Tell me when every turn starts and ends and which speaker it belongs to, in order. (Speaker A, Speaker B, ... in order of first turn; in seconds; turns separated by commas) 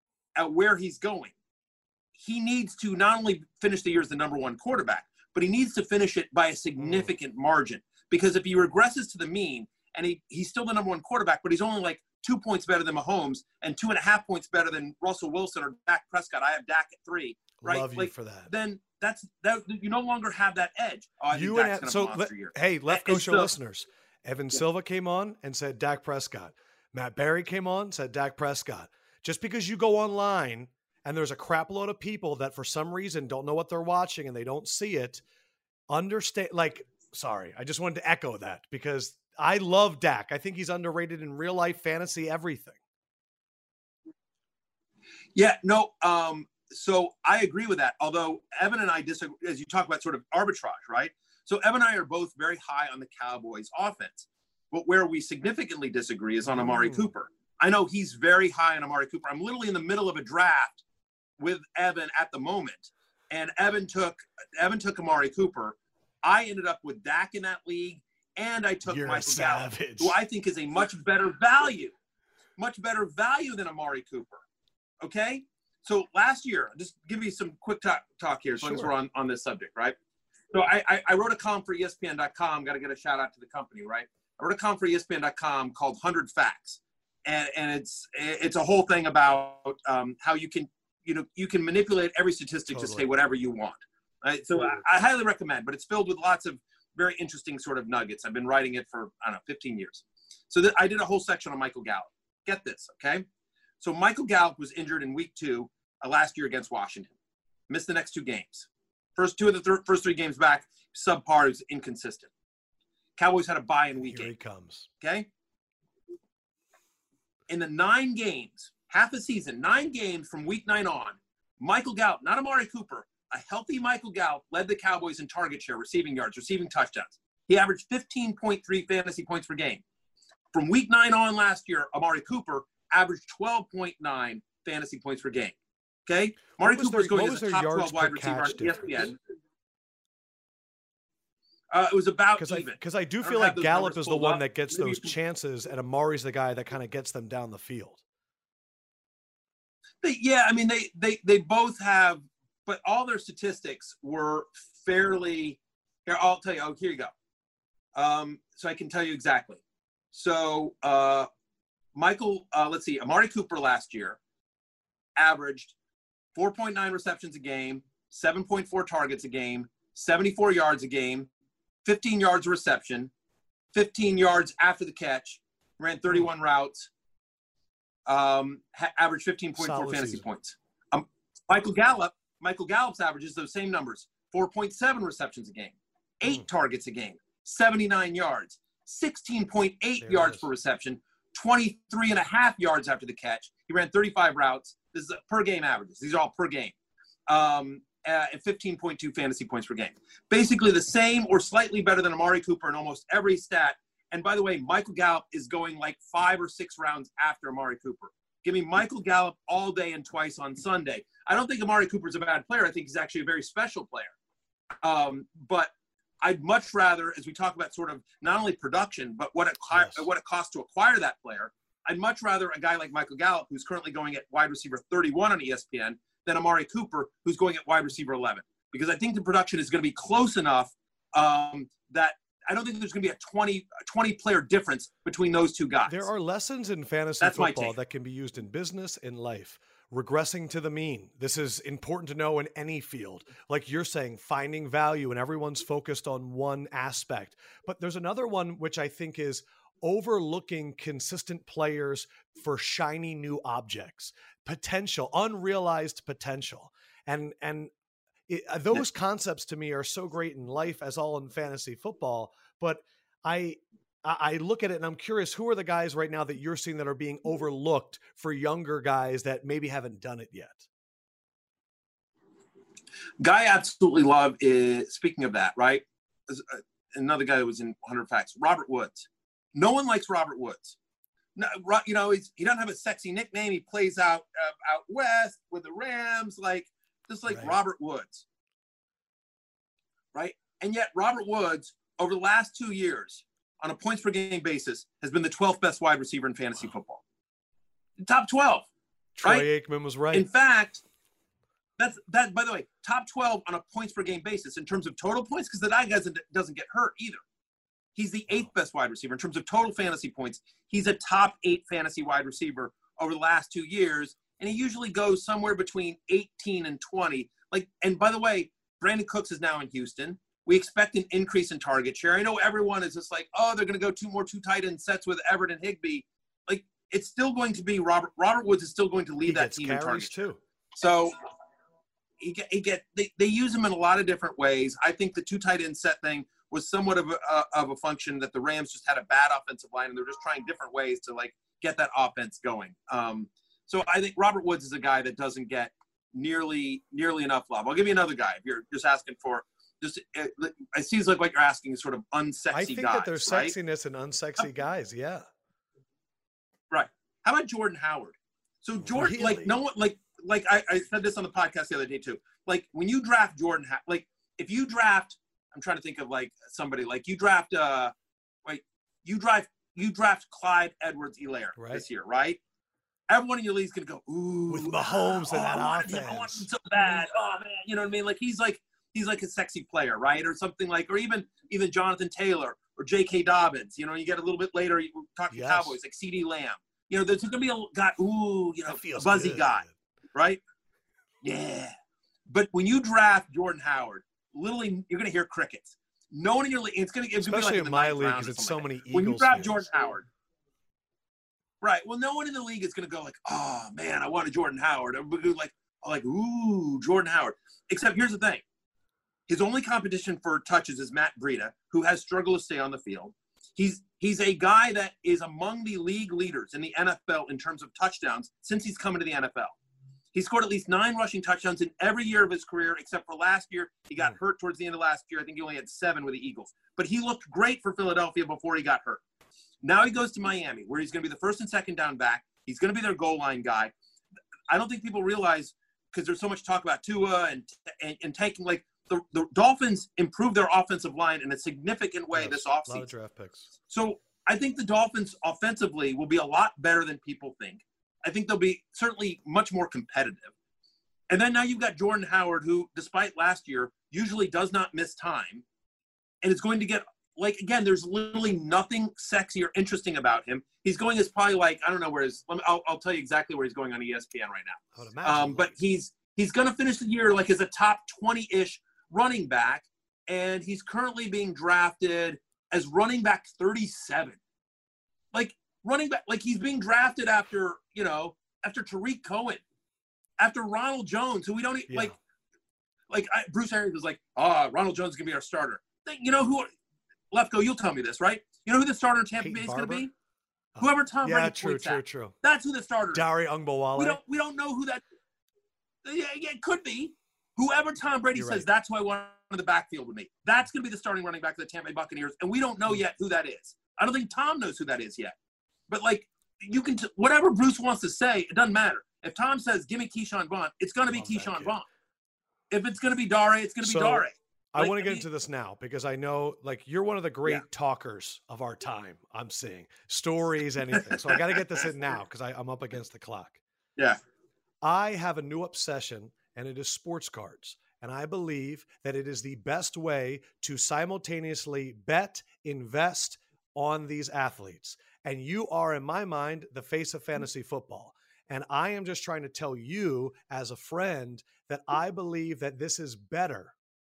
Speaker A: 0.4-1.3, Speaker A: 2.1-23.5, Speaker B: 6.8-7.1, Speaker B: 17.6-18.5, Speaker B: 21.3-35.2, Speaker B: 35.9-42.8, Speaker A: 45.4-60.8, Speaker B: 56.5-57.1, Speaker A: 61.4-71.9, Speaker B: 68.8-70.2, Speaker A: 72.6-74.4, Speaker A: 75.0-80.0, Speaker B: 78.6-78.9, Speaker A: 80.5-103.2, Speaker B: 92.7-93.1, Speaker A: 103.8-107.1, Speaker A: 107.7-112.3, Speaker A: 113.2-114.3, Speaker B: 114.0-114.9, Speaker A: 115.0-115.3, Speaker A: 117.5-129.8, Speaker A: 130.5-135.6, Speaker A: 136.1-139.1, Speaker B: 136.6-139.1, Speaker A: 141.7-145.1, Speaker B: 142.4-148.0, Speaker A: 150.0-157.1, Speaker A: 157.9-159.6, Speaker A: 160.1-161.3, Speaker A: 161.9-164.2, Speaker A: 165.2-165.8, Speaker A: 166.3-171.3, Speaker A: 171.8-173.1, Speaker A: 173.7-176.9, Speaker A: 178.1-196.7, Speaker B: 179.6-180.3, Speaker B: 190.0-190.5, Speaker A: 197.3-214.1, Speaker A: 214.8-215.7, Speaker A: 216.2-236.1, Speaker B: 219.7-220.1, Speaker B: 235.9-257.7, Speaker A: 237.2-237.7, Speaker B: 258.3-270.7, Speaker A: 273.2-280.8, Speaker A: 281.4-288.2, Speaker B: 287.3-287.6, Speaker A: 290.1-297.0, Speaker A: 298.0-298.7, Speaker B: 299.2-300.3, Speaker A: 300.1-300.8, Speaker A: 301.8-307.2, Speaker A: 307.9-330.1, Speaker B: 329.2-330.4, Speaker A: 330.8-331.2, Speaker A: 332.2-353.5, Speaker B: 352.5-355.2, Speaker A: 356.7-367.9, Speaker B: 358.8-359.6, Speaker A: 368.4-372.4, Speaker B: 371.6-371.8, Speaker A: 373.1-389.6, Speaker B: 374.5-376.5, Speaker B: 385.3-385.8, Speaker B: 388.7-389.8, Speaker A: 390.1-390.4, Speaker A: 391.2-391.7, Speaker A: 392.3-400.1, Speaker B: 397.2-399.7, Speaker A: 401.6-408.4, Speaker A: 409.3-419.6, Speaker A: 420.1-429.0, Speaker A: 429.6-433.7, Speaker A: 434.5-442.9, Speaker B: 442.1-443.5, Speaker A: 443.7-450.3, Speaker A: 451.1-455.4, Speaker A: 456.2-474.2, Speaker B: 464.8-465.5, Speaker A: 475.1-479.4, Speaker A: 480.2-481.9, Speaker B: 481.7-481.9, Speaker A: 482.9-486.5, Speaker A: 487.1-489.9, Speaker B: 489.2-489.9, Speaker B: 490.6-492.1, Speaker A: 490.6-493.0, Speaker B: 492.9-494.0, Speaker A: 493.8-494.8, Speaker A: 495.8-505.1, Speaker B: 498.1-498.5, Speaker A: 505.7-511.6, Speaker B: 510.9-511.6, Speaker A: 512.5-515.0, Speaker B: 513.6-523.4, Speaker A: 520.7-521.4, Speaker B: 524.6-543.5